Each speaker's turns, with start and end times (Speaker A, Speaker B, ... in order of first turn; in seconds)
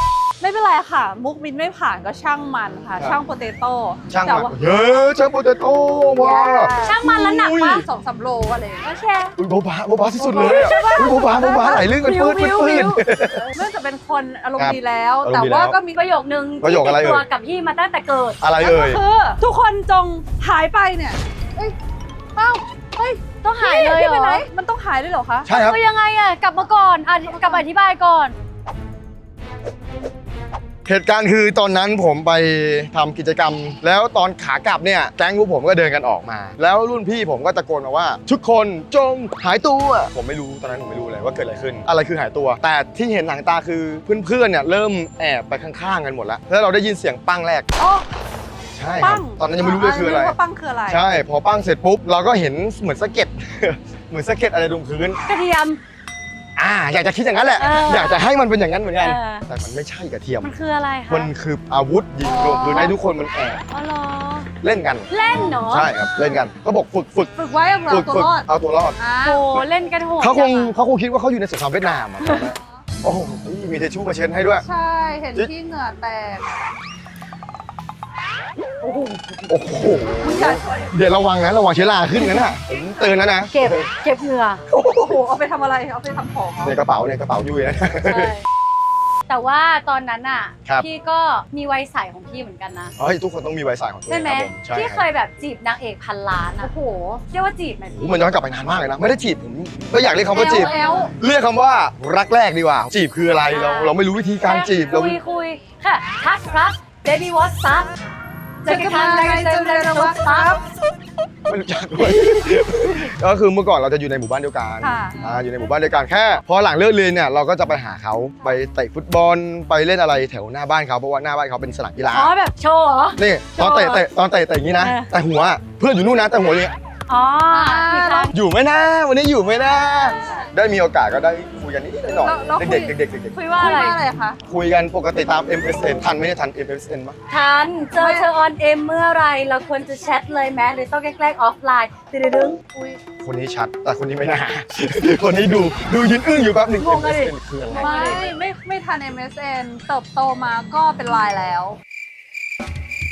Speaker A: 0.4-5.0, 6.2-8.9, 10.2-15.9, 18.6-21.7, 22.4-25.5, 27.2-27.6, 47.8-48.0, 49.0-51.0, 62.2-62.9, 67.3-69.4, 74.6-76.5, 78.8-79.2, 80.2-80.9, 84.9-86.8, 96.6-97.2, 100.3-101.1, 108.6-110.6, 114.8-115.4, 127.5-128.3, 130.1-130.4, 132.1-134.4, 137.9-138.3, 142.7-143.0, 147.7-151.8
Speaker B: 4.1-7.8, 9.4-13.5, 14.6-15.8, 16.6-17.2, 18.4-19.0, 25.4-25.8, 30.8-47.7, 48.7-55.2, 56.5-60.6, 61.1-63.6, 64.6-67.3, 67.8-69.0, 70.2-74.6, 79.5-83.9, 84.7-85.2, 86.6-88.3, 93.0-95.0, 97.8-105.2, 111.5-122.3, 123.2-126.7, 128.3-133.8, 134.5-137.2, 143.2-148.2
Speaker C: 6.8-7.8, 8.8-9.3, 10.3-12.4, 15.8-18.4, 23.4-24.4, 25.5-28.4, 55.3-55.8, 57.6-58.2, 59.0-59.4, 60.4-61.3, 62.7-63.0, 63.7-64.5, 65.1-65.9, 69.2-70.7, 83.5-84.6, 88.0-88.4, 89.3-92.9, 94.1-96.7, 97.3-98.0, 100.6-101.0, 103.5-107.9, 108.6-110.6, 122.1-124.0, 124.8-125.1, 127.1-128.3, 133.4-134.0, 137.3-142.6, 146.8-148.3